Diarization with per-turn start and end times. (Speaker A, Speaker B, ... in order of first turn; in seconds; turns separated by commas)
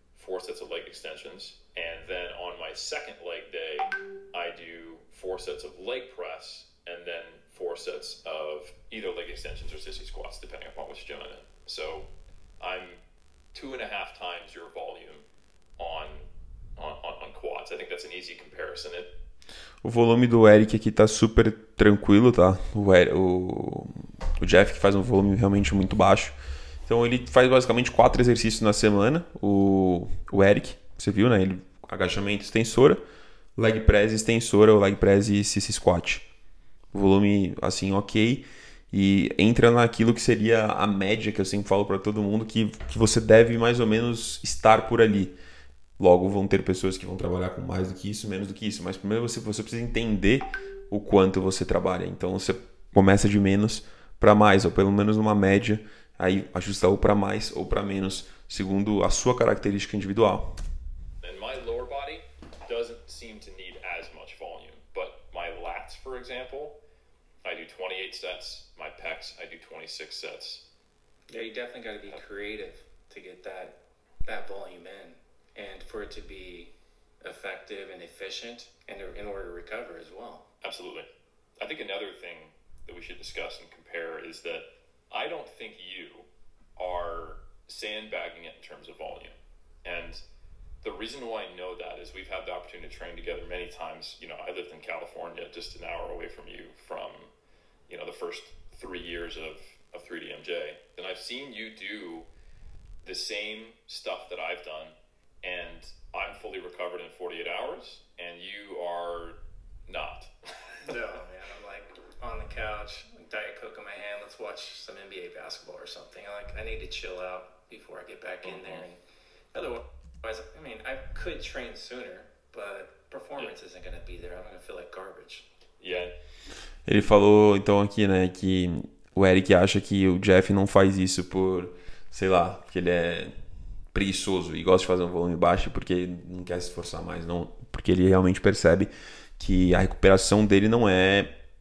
Speaker A: 0.1-12.1, Speaker A: 12.6-13.0, Speaker A: 13.5-15.2, Speaker A: 15.8-19.1, Speaker B: 19.8-26.4, Speaker B: 26.9-33.0, Speaker B: 33.6-36.2, Speaker B: 36.9-45.4, Speaker B: 46.0-60.6, Speaker A: 61.2-66.8, Speaker A: 67.4-70.6, Speaker C: 71.3-80.5, Speaker A: 80.6-81.1, Speaker A: 81.6-90.2, Speaker A: 90.8-97.3, Speaker A: 97.9-102.3, Speaker A: 103.0-110.8, Speaker C: 110.8-119.0, Speaker A: 118.4-118.8, Speaker C: 119.5-125.5, Speaker A: 125.8-126.1, Speaker B: 126.9-133.3, Speaker B: 133.9-141.3